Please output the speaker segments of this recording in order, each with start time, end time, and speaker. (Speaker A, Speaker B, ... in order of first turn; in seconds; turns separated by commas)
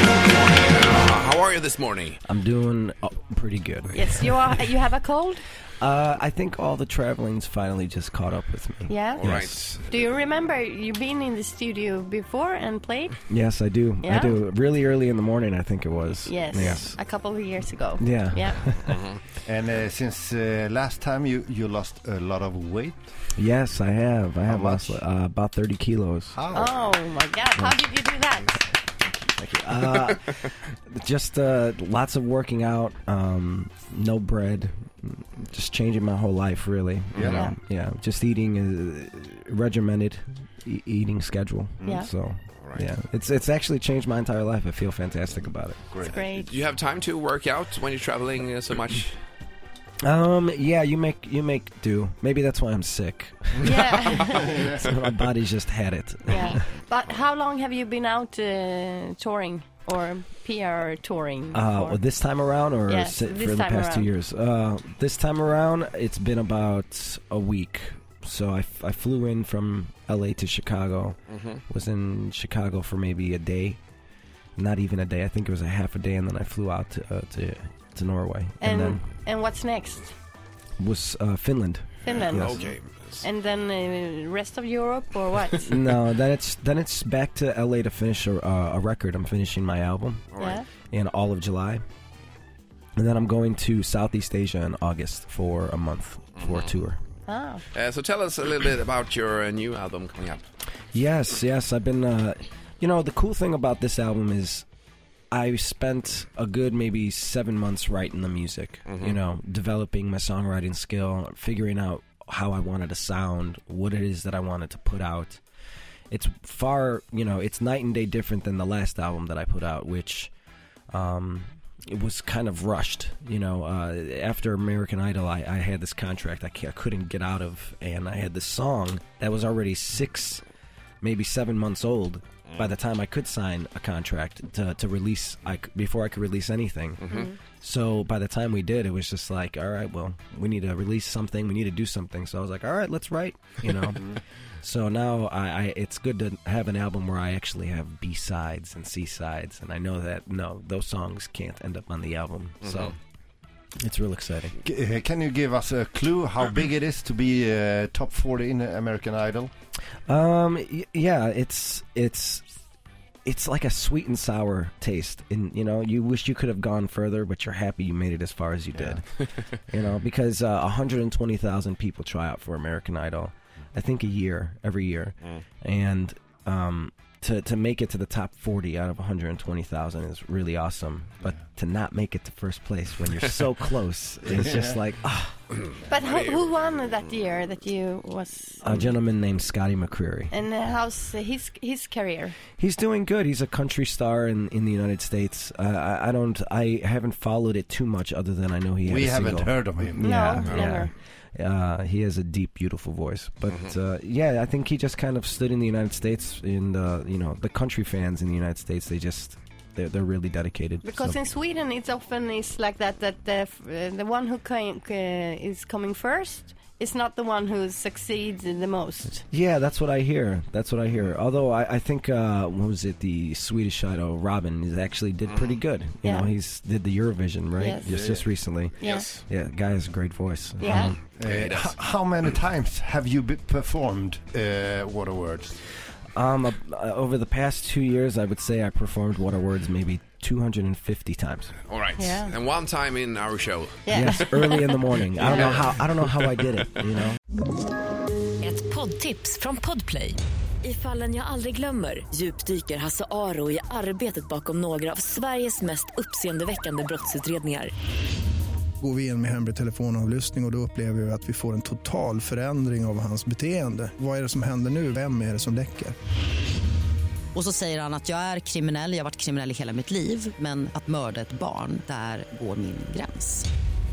Speaker A: 0.3-2.2, Speaker B: 2.2-4.5, Speaker C: 3.9-5.4, Speaker B: 5.8-9.6, Speaker C: 8.9-9.3, Speaker A: 9.1-9.9, Speaker C: 9.8-13.2, Speaker B: 13.3-17.0, Speaker C: 14.0-14.4, Speaker C: 16.2-18.7, Speaker B: 18.0-19.0, Speaker D: 19.4-23.1, Speaker B: 23.4-26.4, Speaker D: 24.5-25.0, Speaker D: 26.3-26.8, Speaker C: 26.5-28.6, Speaker B: 29.3-45.8, Speaker D: 37.1-37.4, Speaker A: 37.1-37.4, Speaker C: 37.3-37.6, Speaker A: 42.6-42.9, Speaker C: 46.0-46.5, Speaker A: 46.1-49.1, Speaker B: 50.0-56.7, Speaker C: 53.6-54.7, Speaker C: 56.3-62.0, Speaker B: 61.5-73.8, Speaker C: 62.9-64.1, Speaker A: 71.3-71.6, Speaker B: 74.6-79.0, Speaker C: 78.6-80.1, Speaker B: 80.8-82.7, Speaker C: 82.0-82.6, Speaker A: 82.2-83.2, Speaker C: 83.2-85.8, Speaker B: 85.6-90.3, Speaker A: 90.3-90.6, Speaker C: 90.4-90.7, Speaker B: 90.9-91.8, Speaker B: 93.0-97.0, Speaker A: 96.4-96.6, Speaker C: 97.2-97.6, Speaker A: 97.7-100.4, Speaker B: 100.9-104.6, Speaker B: 105.3-115.4, Speaker A: 108.9-109.2, Speaker B: 116.1-120.3, Speaker B: 120.9-130.4, Speaker B: 131.0-153.0, Speaker C: 137.1-137.4, Speaker B: 153.8-154.6, Speaker D: 154.6-159.5, Speaker B: 160.1-162.4, Speaker B: 163.2-185.3, Speaker D: 168.7-169.0, Speaker C: 185.8-188.7, Speaker B: 188.6-190.3, Speaker C: 190.3-192.4, Speaker B: 192.6-211.2, Speaker D: 198.8-200.1, Speaker C: 200.0-200.9, Speaker A: 200.4-200.7, Speaker C: 210.8-219.2, Speaker B: 219.3-231.0, Speaker C: 226.0-226.3, Speaker C: 227.6-227.9, Speaker D: 227.9-228.3, Speaker C: 228.8-229.2, Speaker C: 230.6-230.9, Speaker D: 231.2-235.6, Speaker A: 231.2-231.7, Speaker B: 236.1-241.5, Speaker A: 241.7-243.8, Speaker C: 242.0-242.3, Speaker C: 243.8-244.7, Speaker B: 243.9-247.2, Speaker A: 245.3-245.7, Speaker E: 248.4-257.7, Speaker F: 258.8-265.9, Speaker G: 267.3-273.4